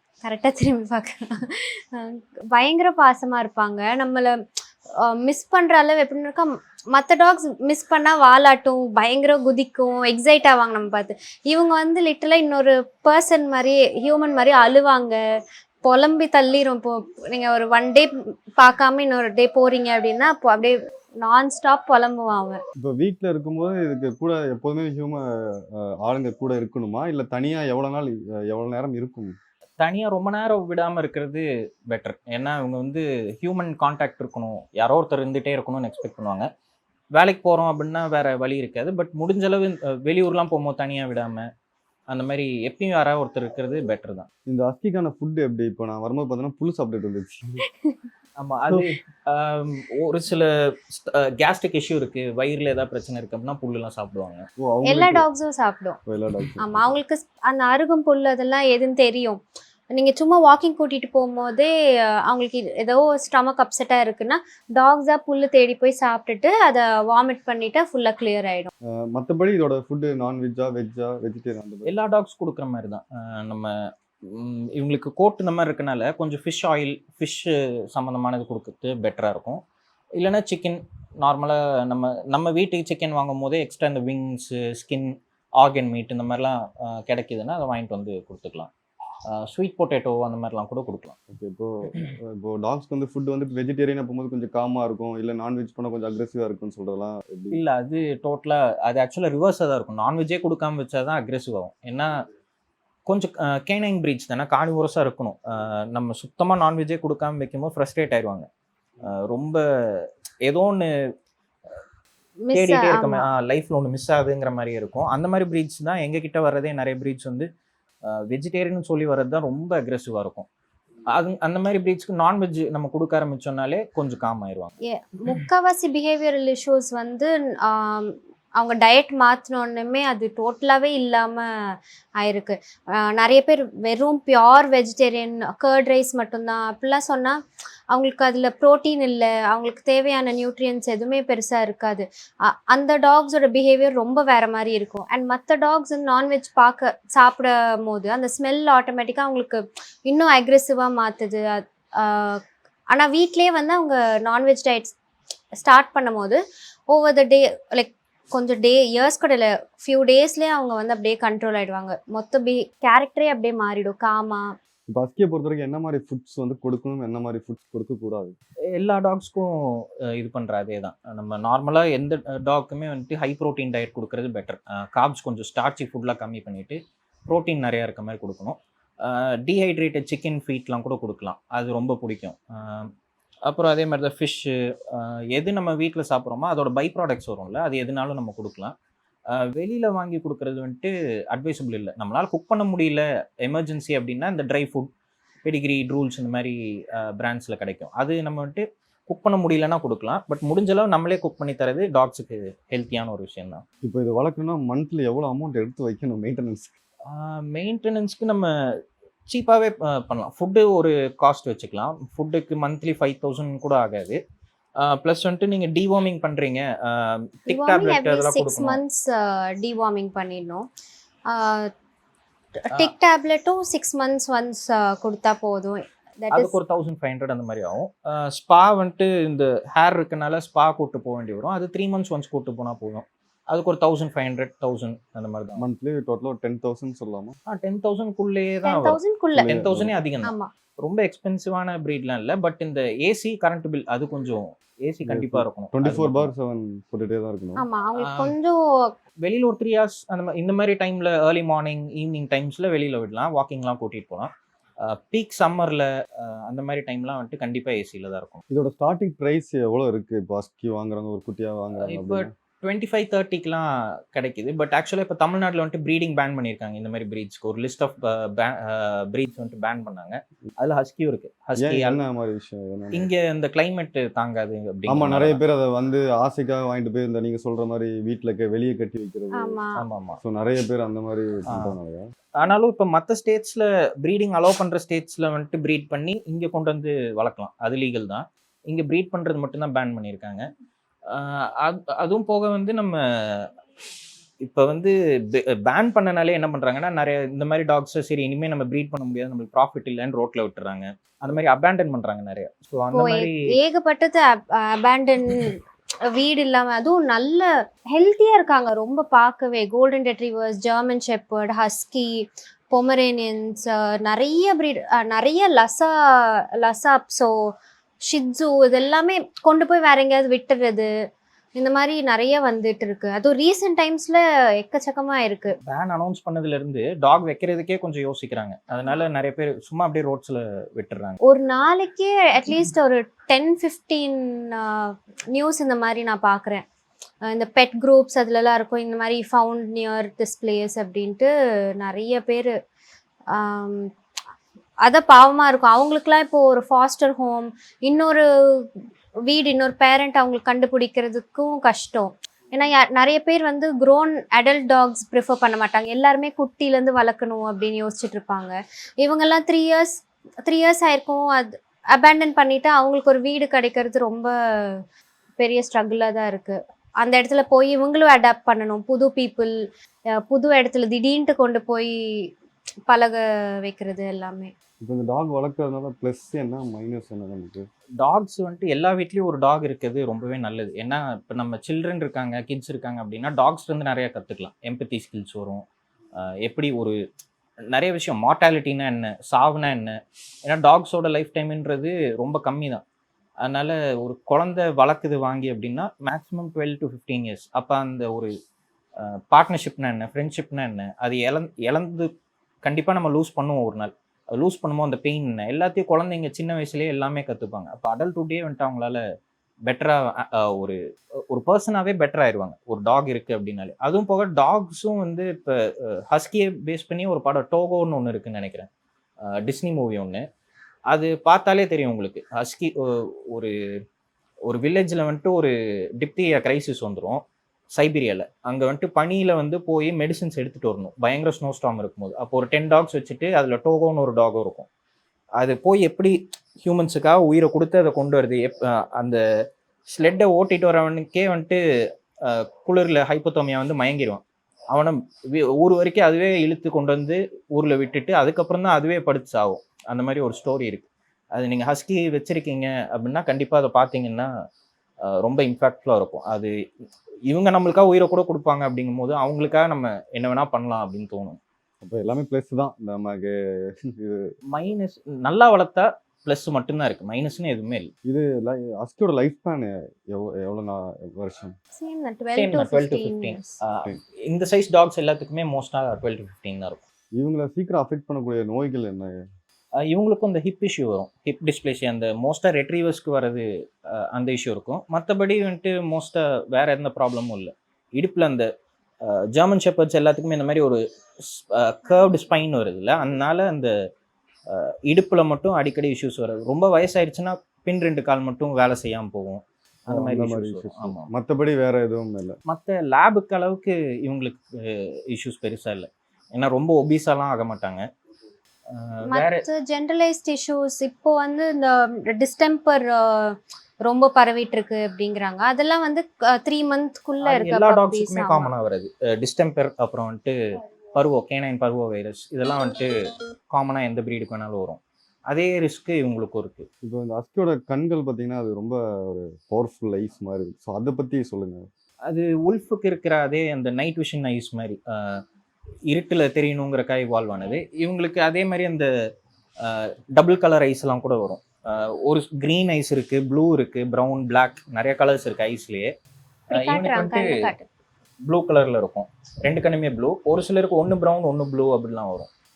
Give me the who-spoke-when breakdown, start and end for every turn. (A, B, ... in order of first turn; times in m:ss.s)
0:00.2-0:04.4 A
0:05.0-0:15.2 A
0:15.8-0:22.6 A
0:22.8-0:29.4 B
0:29.8-0:36.5 C
0:37.1-0:41.5 C
0:42.1-0:44.3 C
0:44.4-0:47.6 B
0:48.4-0:54.4 C
0:54.6-0:55.2 B
0:54.8-0:56.0 A
0:56.0-0:56.9 B
0:56.6-0:59.4 A
0:59.9-1:01.7 A
1:02.2-1:08.7 A
1:08.8-1:11.9 B
1:11.8-1:19.6 C
1:20.2-1:28.7 C
1:29.3-1:31.2 C
1:31.3-1:37.6 B
1:37.5-1:42.1 C
1:43.1-1:48.5 C
1:49.0-1:50.9 C
1:52.4-1:53.3 A
1:52.5-1:57.5 C
1:58.0-2:00.4 C
2:01.1-2:04.7 C
2:04.9-2:17.4 A
2:17.9-2:34.9 A
2:35.6-2:36.4 A
2:36.9-2:44.5 A
2:44.9-2:48.4 B
2:48.7-3:02.9 C
3:03.4-3:08.7 C
3:09.3-3:14.9 C
3:15.4-3:23.6 C
3:23.8-3:26.7 B
3:27.1-3:28.5 C
3:29.3-3:34.2 C
3:34.8-3:38.8 C
3:37.5-3:40.6 A
3:41.3-3:41.7 A
3:42.6-3:46.6 A
3:46.3-3:55.6 C
3:55.6-3:57.4 B
3:57.5-4:06.3 C
3:58.6-3:59.6 A
3:59.4-3:59.9 B
4:00.2-4:00.5 A
4:05.0-4:07.6 B
4:07.6-4:08.6 A
4:08.0-4:08.3 C
4:09.2-4:18.4 C
4:18.5-4:22.3 B
4:21.8-4:32.0 C
4:31.6-4:33.1 B
4:32.9-4:35.4 C
4:34.9-4:39.6 B
4:39.4-4:39.8 A
4:39.8-4:40.2 C
4:40.2-4:42.1 B
4:42.4-4:50.5 C
4:51.1-4:53.5 C
4:54.4-5:03.4 C
5:02.9-5:05.6 A
5:06.1-5:17.5 A
5:18.1-5:20.9 A
5:21.6-5:25.6 A
5:25.6-5:31.2 C
5:31.2-5:36.6 A
5:37.2-5:42.5 A
5:43.3-5:43.9 A
5:44.8-5:48.7 A
5:49.2-6:04.8 A
6:05.4-6:09.5 A
6:10.1-6:12.3 A
6:12.9-6:14.5 A
6:14.8-6:17.6 B
6:18.0-6:25.6 C
6:26.2-6:27.0 C
6:27.7-6:32.8 C
6:33.4-6:38.3 C
6:39.0-6:42.1 C
6:42.6-6:49.0 C
6:49.6-6:50.8 C
6:51.3-6:58.7 C
6:59.4-7:00.2 C
7:00.9-7:03.5 C
7:04.4-7:07.2 C
7:07.7-7:14.7 C
7:15.4-7:19.2 C
7:19.9-7:21.6 C
7:22.2-7:24.2 C
7:24.7-7:34.3 C
7:35.0-7:36.5 C
7:37.3-7:41.4 C
7:41.8-7:44.3 B
7:44.5-7:47.9 C
7:48.0-7:51.5 B
7:51.8-7:53.6 A
7:52.4-7:56.8 C
7:57.2-7:59.3 B
7:59.8-8:08.5 C
8:09.0-8:13.7 C
8:14.5-8:21.1 C
8:19.9-8:22.4 B
8:22.5-8:27.8 C
8:28.7-8:29.4 C
8:29.0-8:38.5 A
8:37.2-8:40.3 C
8:40.9-8:42.9 C
8:43.5-8:46.7 C
8:46.8-8:51.6 B
8:52.1-8:55.2 C
8:55.9-8:58.9 C
8:59.6-9:05.9 C
9:06.5-9:07.7 A
9:06.5-9:07.5 C
9:08.2-9:12.3 C